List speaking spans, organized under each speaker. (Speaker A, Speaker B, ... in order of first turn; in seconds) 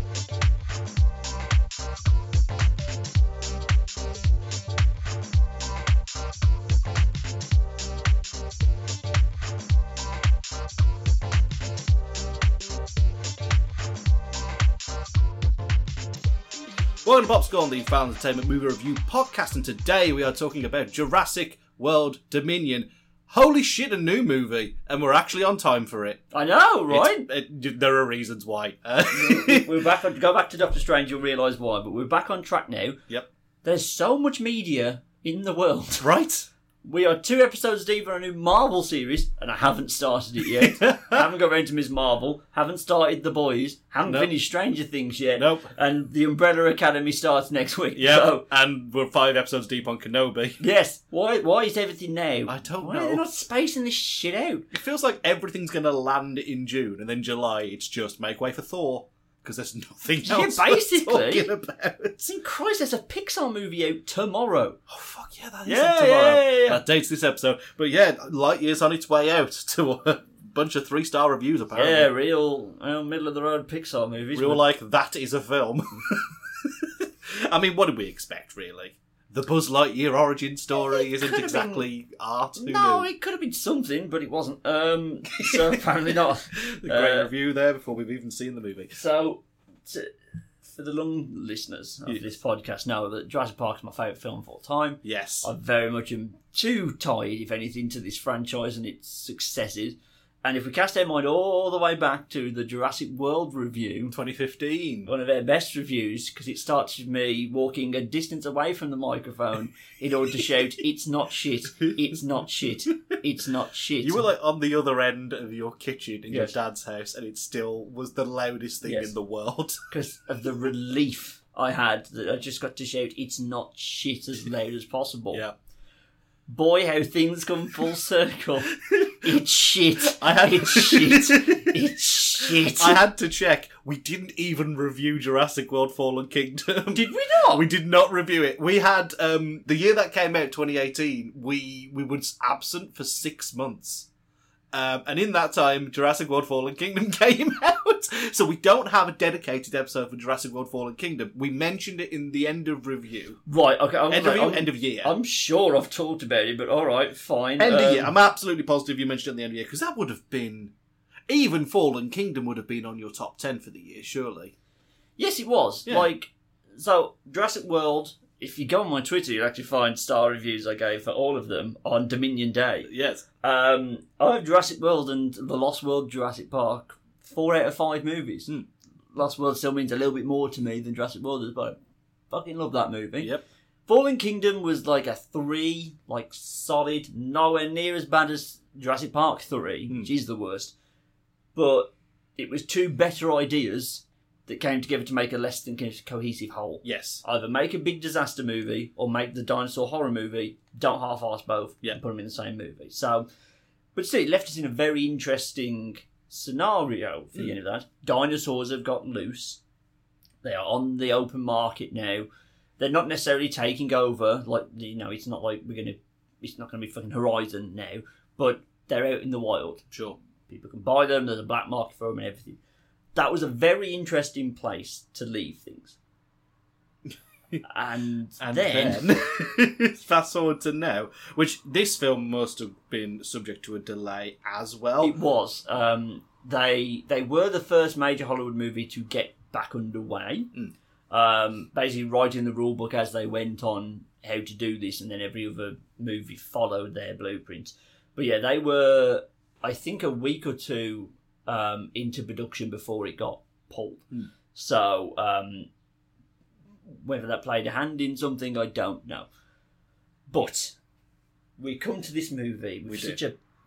Speaker A: 17.0-26.2, 26.9-29.7, 36.0-36.5, 40.6-41.2, 44.0-44.3, 45.4-45.7, 48.0-50.6, 52.5-53.2, 54.7-62.3, 64.9-72.1, 74.3-83.1, 85.4-85.8, 86.5-88.9, 95.0-95.5, 104.1-105.1, 111.8-112.2, 114.0-119.8, 128.9-129.2, 130.1-131.8, 132.4-144.1, 144.7-153.4, 154.1-155.1, 157.6-160.7, 161.3-164.5, 172.9-173.2, 196.8-197.2, 219.9-220.2, 228.4-235.2, 262.9-263.2
Speaker B: 26.3-27.3, 29.1-33.0, 33.6-36.1, 36.9-48.5, 50.6-54.7, 60.2-61.5, 62.2-64.8, 65.7-66.8, 71.8-74.6, 80.8-81.8, 82.6-87.3, 88.9-90.1, 90.7-104.2, 105.1-114.3, 116.3-116.6, 118.8-119.1, 119.9-125.4, 126.5-133.0, 136.9-137.7, 153.5-158.1, 165.2-178.5, 179.1-181.8, 182.3-183.3, 183.9-190.7, 191.6-203.3, 203.9-209.6, 210.4-212.3, 212.8-219.9, 220.5-222.6, 223.2-226.0, 227.6-229.1, 235.0-240.5, 241.1-255.7, 256.9-259.3, 260.3-260.8, 261.6-263.4